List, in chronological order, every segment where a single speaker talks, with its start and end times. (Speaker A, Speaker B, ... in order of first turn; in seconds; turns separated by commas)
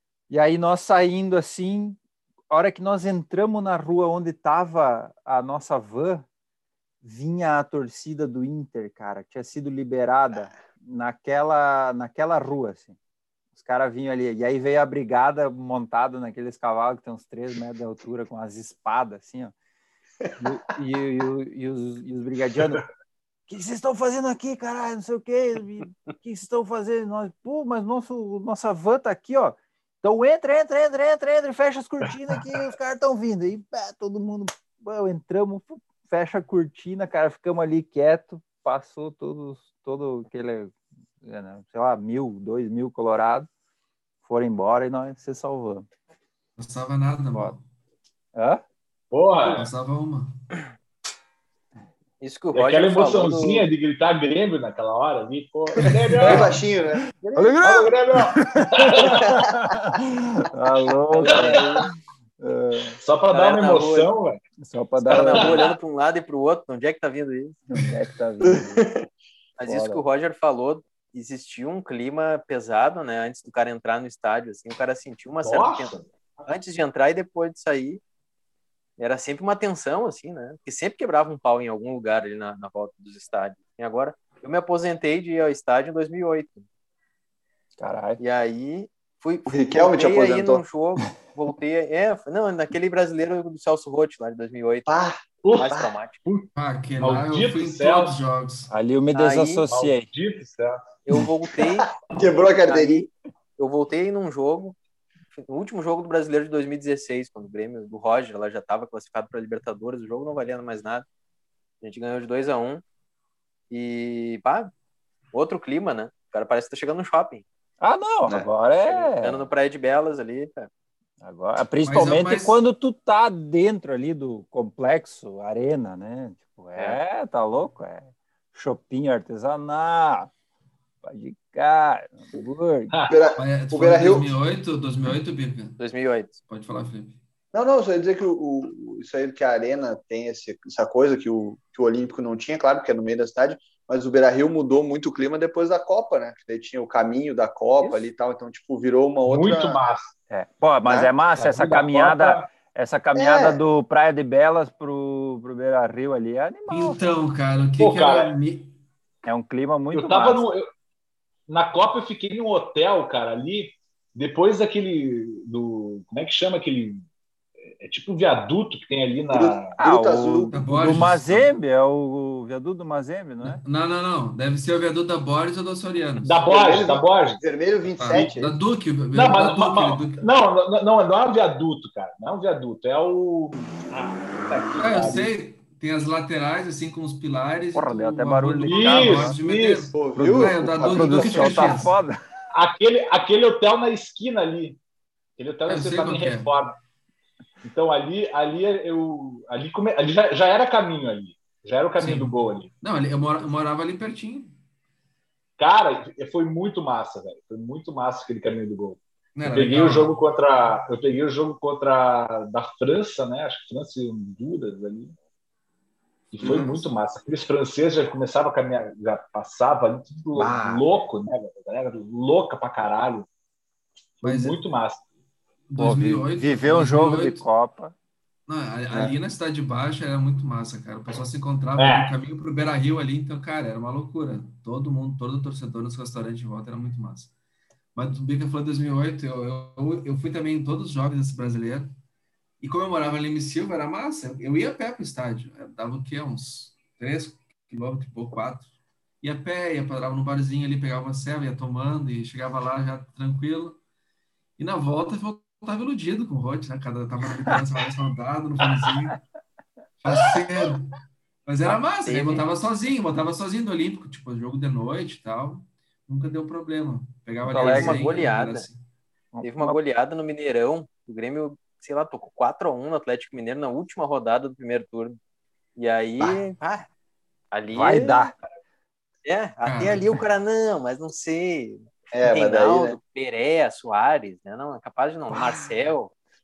Speaker A: 0.3-6.2, Speaker A: 7.0-12.9, Speaker A: 13.6-19.5, Speaker A: 20.4-22.8, Speaker A: 23.5-43.5, Speaker A: 44.2-45.9, Speaker B: 46.6-47.6, Speaker A: 48.3-48.6, Speaker C: 49.1-49.7, Speaker B: 49.5-50.3, Speaker D: 52.2-53.7, Speaker C: 52.5-56.5, Speaker B: 56.2-56.6, Speaker E: 56.2-57.5, Speaker A: 57.3-63.0, Speaker C: 57.6-59.2, Speaker E: 59.0-59.8, Speaker D: 61.2-61.6, Speaker E: 61.3-61.6, Speaker C: 63.0-64.4, Speaker D: 63.3-64.1, Speaker A: 64.6-65.7, Speaker D: 65.0-67.6, Speaker A: 67.7-68.9, Speaker E: 68.5-69.0, Speaker D: 69.6-78.0, Speaker A: 69.6-70.0, Speaker C: 75.4-76.1, Speaker D: 79.0-86.7, Speaker A: 87.8-88.2, Speaker D: 88.2-94.9, Speaker E: 89.5-90.6, Speaker E: 94.9-95.2, Speaker C: 95.4-98.2, Speaker D: 95.6-96.2, Speaker B: 96.5-98.7, Speaker A: 98.7-100.1, Speaker D: 99.1-99.7, Speaker C: 99.7-100.8, Speaker D: 101.0-101.9, Speaker E: 102.0-103.1, Speaker D: 102.7-104.8, Speaker D: 105.3-111.0, Speaker D: 111.8-112.8, Speaker D: 113.7-114.7, Speaker D: 115.3-117.4, Speaker A: 117.8-119.5, Speaker D: 118.9-120.7, Speaker A: 121.2-130.3, Speaker B: 121.8-122.6, Speaker D: 126.7-127.0, Speaker A: 131.0-133.0, Speaker C: 132.9-133.2, Speaker E: 133.1-134.3, Speaker B: 133.4-135.8, Speaker D: 135.8-136.3, Speaker B: 136.5-137.2, Speaker E: 137.5-149.8, Speaker C: 149.2-150.1, Speaker A: 150.3-157.1, Speaker C: 151.3-152.5, Speaker E: 153.1-153.6, Speaker B: 156.7-158.8, Speaker C: 157.8-158.3, Speaker A: 159.2-160.5, Speaker C: 159.9-160.7, Speaker C: 161.5-167.0, Speaker C: 167.8-169.8, Speaker E: 169.3-170.5, Speaker A: 169.8-173.6, Speaker B: 170.5-171.5, Speaker B: 173.4-176.4, Speaker C: 176.2-177.4, Speaker E: 176.4-178.5, Speaker B: 178.0-180.2, Speaker C: 179.1-185.3, Speaker B: 184.8-191.9, Speaker A: 187.7-189.4, Speaker C: 188.6-189.9, Speaker E: 189.9-191.8, Speaker A: 190.2-192.2, Speaker C: 192.5-194.8, Speaker C: 195.4-196.8, Speaker B: 195.7-196.6, Speaker C: 197.6-202.7, Speaker B: 202.0-204.6, Speaker C: 205.6-215.1, Speaker B: 209.3-210.1, Speaker C: 216.3-223.3, Speaker E: 216.4-216.8, Speaker A: 220.3-220.8, Speaker C: 224.2-225.0, Speaker A: 224.2-224.5, Speaker B: 224.2-224.6, Speaker B: 225.7-227.4, Speaker A: 225.8-227.9, Speaker B: 228.5-237.3, Speaker C: 231.8-232.2, Speaker B: 237.9-241.9, Speaker B: 242.6-248.7, Speaker B: 249.2-253.8, Speaker B: 254.6-259.2, Speaker B: 260.0-260.9, Speaker B: 261.4-268.8, Speaker D: 261.7-262.4, Speaker A: 267.4-268.0, Speaker D: 267.6-268.6, Speaker A: 269.3-269.8, Speaker D: 269.4-275.2, Speaker D: 275.8-276.9, Speaker D: 277.5-278.3, Speaker A: 277.7-278.3, Speaker D: 279.2-286.1, Speaker B: 279.6-280.2, Speaker E: 282.1-283.0